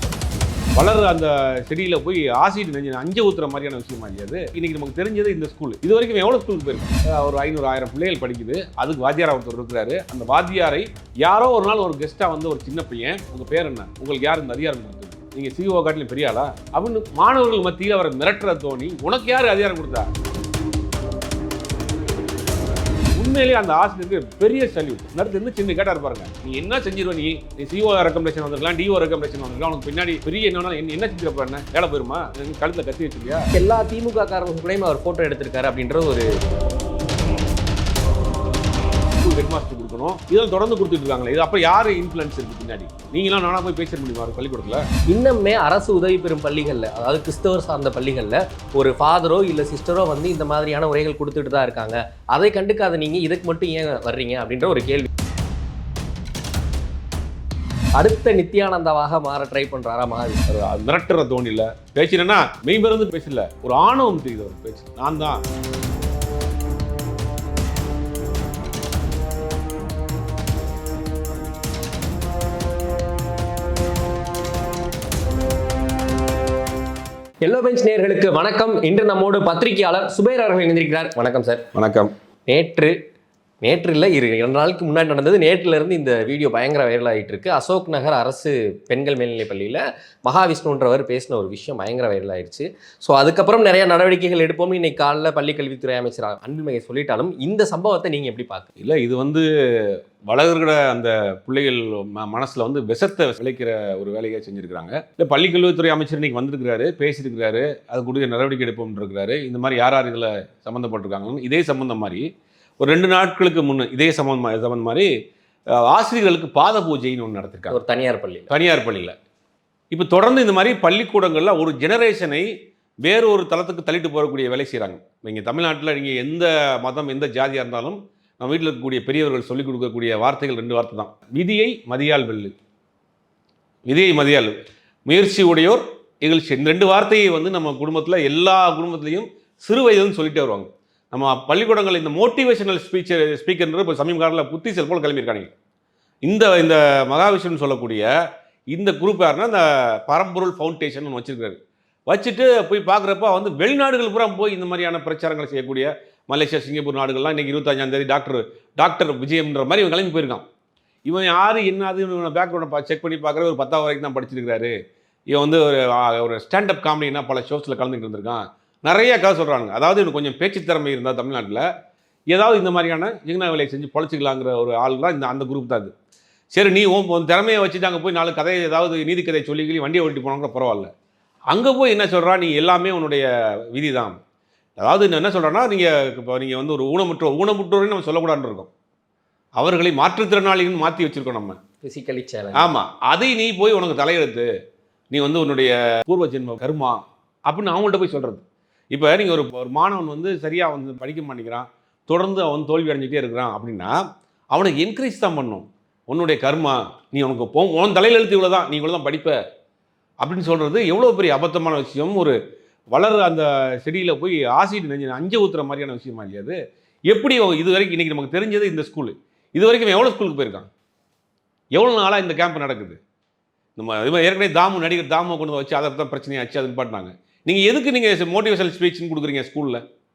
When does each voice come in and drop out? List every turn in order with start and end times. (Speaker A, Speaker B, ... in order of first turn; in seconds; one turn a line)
Speaker A: 0.8-20.1
Speaker A: 23.1-33.5
Speaker B: 33.5-36.2
Speaker A: 39.2-44.9
Speaker B: 45.1-55.1
Speaker B: 58.0-60.5
Speaker A: 60.5-65.4
Speaker B: 77.4-81.7
Speaker A: 81.7-82.1
Speaker B: 82.5-82.9
Speaker B: 83.6-98.7
Speaker A: 98.8-112.2
Speaker A: 112.8-115.1
Speaker A: 115.7-117.8
Speaker B: 117.7-118.5
Speaker A: 118.5-119.1
Speaker A: 119.9-122.5
Speaker A: 123.0-132.5
Speaker A: 133.9-134.5
Speaker A: 135.1-145.5
Speaker A: 146.2-148.1
Speaker A: 148.7-160.4
Speaker A: 161.1-164.7
Speaker A: 165.3-171.7
Speaker A: 172.3-175.9
Speaker A: 176.5-180.9
Speaker A: 181.5-184.2
Speaker A: 184.8-188.7
Speaker A: 189.6-191.6
Speaker B: 191.8-192.7
Speaker A: 192.5-194.5
Speaker A: 195.1-204.0
Speaker A: 204.5-209.3
Speaker A: 210.2-212.3
Speaker A: 212.9-216.6
Speaker A: 217.1-220.7
Speaker A: 221.7-223.0
Speaker A: 223.8-229.8